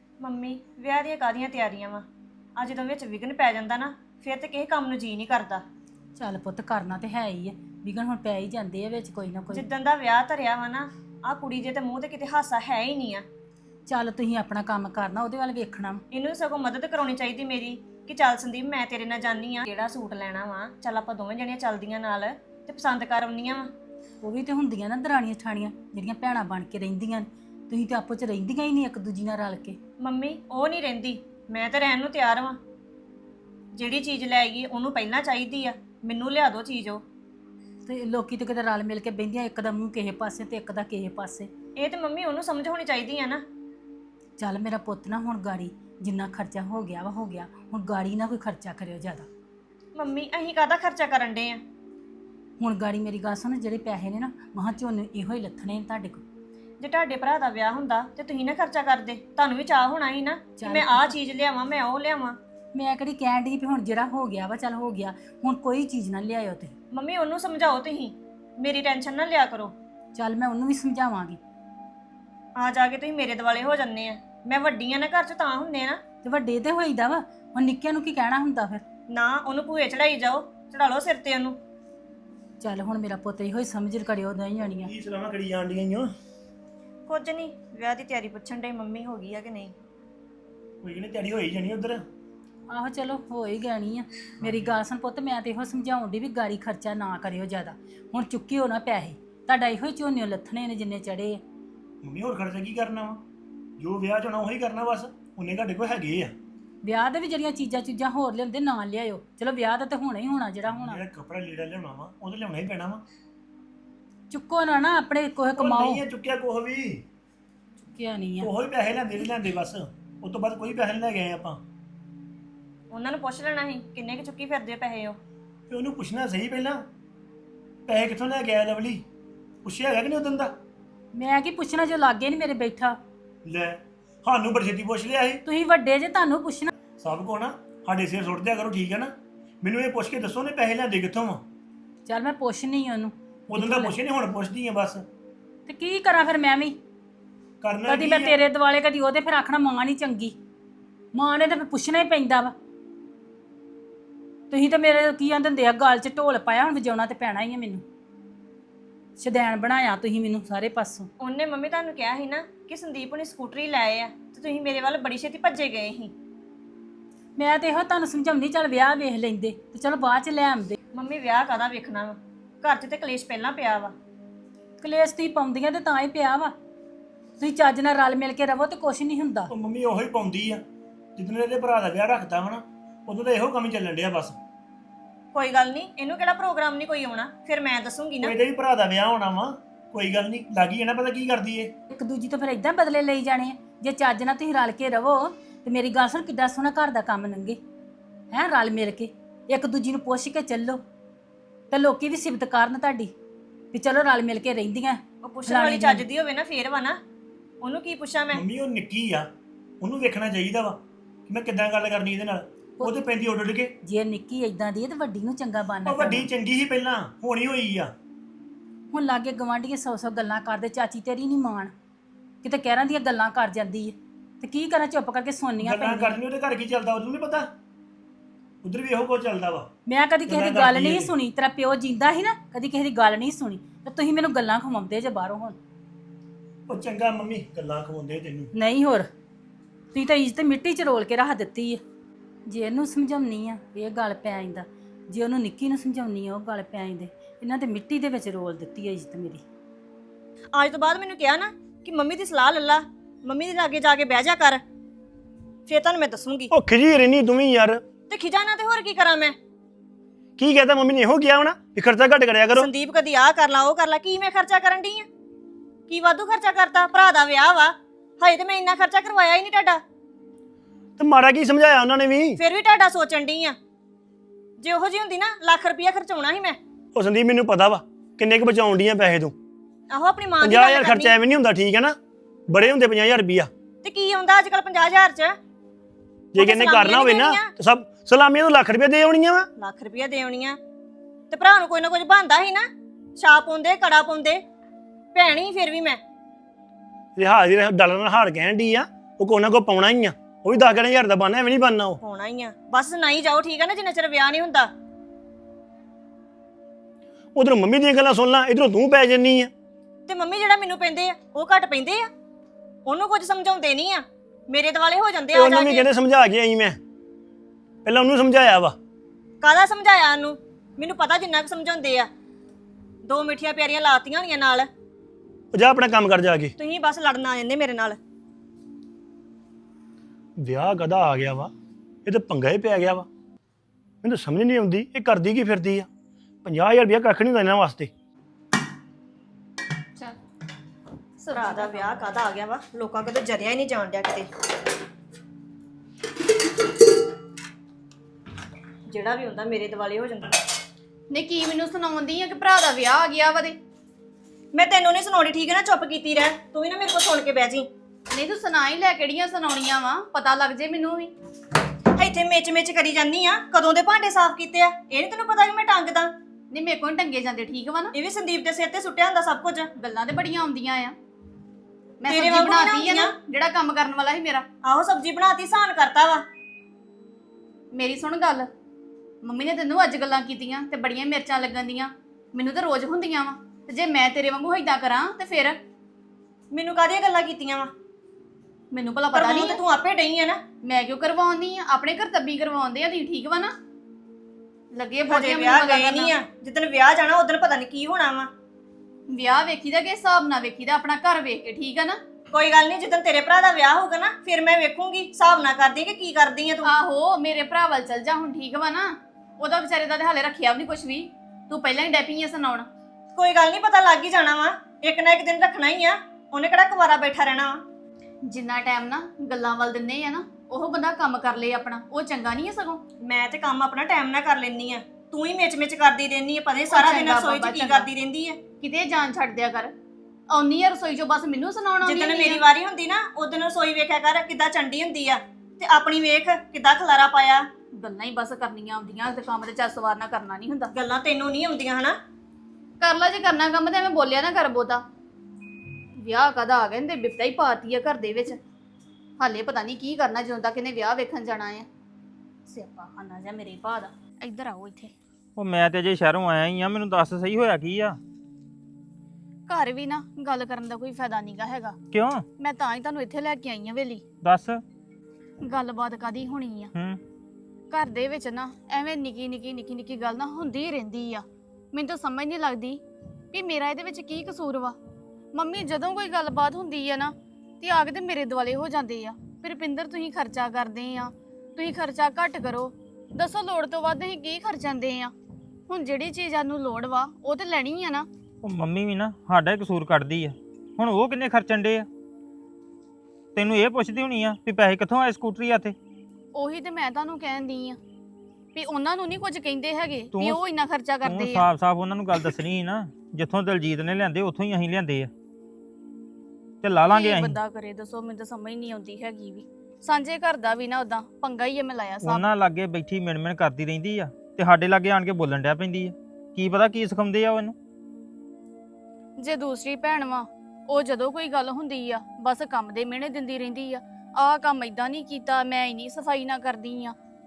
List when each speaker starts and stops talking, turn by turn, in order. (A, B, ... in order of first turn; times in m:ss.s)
0:00.2-0:02.0 A
0:02.6-0:05.6 A
0:06.2-0:09.6 B
0:09.5-0:13.2 A
0:13.9-0:16.0 B
0:16.1-0:23.7 A
0:24.2-0:29.8 B
0:30.0-0:32.6 A
0:33.8-0:37.0 A
0:37.8-0:41.5 B
0:41.8-0:43.4 A
0:44.4-0:49.3 B
0:50.0-0:51.6 A
0:52.6-0:56.2 B
0:56.8-1:02.4 A
1:00.6-1:01.1 B
1:02.7-1:06.7 B
1:06.9-1:09.7 A
1:10.1-1:11.4 B
1:12.6-1:16.0 A
1:16.2-1:18.8 B
1:19.1-1:21.6 A
1:22.6-1:24.9 B
1:24.6-1:26.1 C
1:27.1-1:29.7 A
1:30.8-1:32.0 C
1:32.7-1:41.4 B
1:42.0-1:43.2 C
1:43.8-1:46.3 C
1:46.8-1:51.0 B
1:50.8-1:53.0 C
1:54.3-1:56.0 B
1:55.6-1:57.0 C
1:57.9-1:58.5 B
1:58.4-2:01.6 C
2:02.9-2:05.2 A
2:05.7-2:06.8 C
2:07.9-2:09.0 C
2:09.6-2:10.5 C
2:11.1-2:13.0 B
2:13.4-2:15.4 C
2:15.4-2:16.7 B
2:17.0-2:21.4 C
2:22.0-2:23.9 B
2:23.5-2:25.0 C
2:25.7-2:26.8 B
2:27.6-2:28.4 C
2:27.8-2:30.3 B
2:31.1-2:32.5 B
2:34.5-2:37.8 B
2:39.2-2:41.1 B
2:41.2-2:46.1 A
2:47.4-2:50.8 B
2:50.9-2:53.9 A
2:54.8-2:56.5 B
2:57.4-2:59.5 B
2:59.5-3:00.6 C
3:01.2-3:04.4 C
3:05.3-3:08.3 A
3:08.2-3:11.7 C
3:11.9-3:17.6 B
3:18.3-3:20.8 B
3:21.7-3:23.1 B
3:23.7-3:26.0 B
3:25.2-3:27.0 A
3:27.6-3:28.4 A
3:28.3-3:29.3 C
3:29.8-3:33.7 C
3:33.8-3:36.3 B
3:35.8-3:37.9 C
3:38.9-3:41.7 B
3:42.4-3:46.1 B
3:45.6-3:47.5 C
3:48.6-3:49.7 C
3:49.9-3:55.6 B
3:50.3-3:51.1 C
3:56.7-3:58.5 C
3:58.5-3:59.1 B
3:59.9-4:01.8 B
4:02.5-4:09.4 B
4:10.5-4:14.6 A
4:15.7-4:16.5 A
4:16.5-4:17.8 C
4:18.1-4:19.4 A
4:20.4-4:22.7 C
4:22.5-4:25.1 A
4:25.9-4:29.8 A
4:31.0-4:32.4 C
4:32.4-4:33.6 A
4:34.6-4:36.6 A
4:36.9-4:39.3 C
4:39.9-4:41.1 A
4:40.4-4:42.0 C
4:42.5-4:43.5 C
4:43.8-4:45.4 A
4:46.3-4:49.5 C
4:46.4-4:47.5 A
4:49.6-4:50.6 A
4:51.3-4:54.4 A
4:55.1-4:56.0 A
4:57.2-5:02.0 C
5:02.0-5:04.7 A
5:07.3-5:09.5 C
5:10.1-5:12.1 A
5:12.8-5:15.9 A
5:15.3-5:16.8 C
5:17.8-5:18.8 C
5:19.4-5:22.1 A
5:23.0-5:24.7 A
5:25.5-5:26.5 C
5:26.6-5:28.0 A
5:30.4-5:31.5 C
5:32.0-5:33.1 C
5:34.0-5:35.9 C
5:36.4-5:37.9 C
5:41.2-5:44.3 A
5:41.3-5:42.1 D
5:48.9-5:50.4 A
5:51.1-5:53.6 D
5:54.5-5:57.7 A
5:58.1-6:01.1 D
6:02.0-6:06.1 A
6:06.5-6:07.9 D
6:07.9-6:09.7 A
6:09.8-6:10.9 D
6:12.0-6:14.4 D
6:12.0-6:13.1 A
6:14.6-6:16.2 A
6:17.7-6:18.5 D
6:19.2-6:25.6 D
6:26.5-6:27.7 A
6:28.7-6:29.6 D
6:29.1-6:30.4 A
6:30.6-6:33.5 D
6:34.7-6:36.1 D
6:35.1-6:38.3 A
6:39.1-6:42.0 D
6:42.3-6:46.7 A
6:46.6-6:52.7 D
6:53.1-6:57.6 A
6:58.3-7:02.8 D
7:03.0-7:08.4 A
7:06.7-7:07.9 D
7:08.6-7:09.7 D
7:10.3-7:12.4 D
7:11.8-7:17.5 A
7:17.8-7:20.7 D
7:20.7-7:22.0 A
7:22.8-7:24.8 D
7:26.0-7:28.4 D
7:29.2-7:31.7 D
7:32.5-7:34.9 D
7:35.4-7:38.0 E
7:39.5-7:41.8 D
7:41.9-7:42.2 E
7:42.4-7:44.0 D
7:44.2-7:44.6 E
7:45.4-7:46.7 D
7:46.7-7:47.0 E
7:47.7-7:52.8 D
7:53.3-7:54.8 D
7:55.3-8:05.1 D
8:05.7-8:08.1 D
8:08.4-8:11.9 E
8:13.3-8:15.7 E
8:16.3-8:17.8 D
8:18.5-8:21.5 D
8:20.1-8:20.4 E
8:21.0-8:25.1 E
8:26.6-8:27.4 E
8:26.9-8:32.3 D
8:32.0-8:37.6 E
8:39.2-8:46.9 D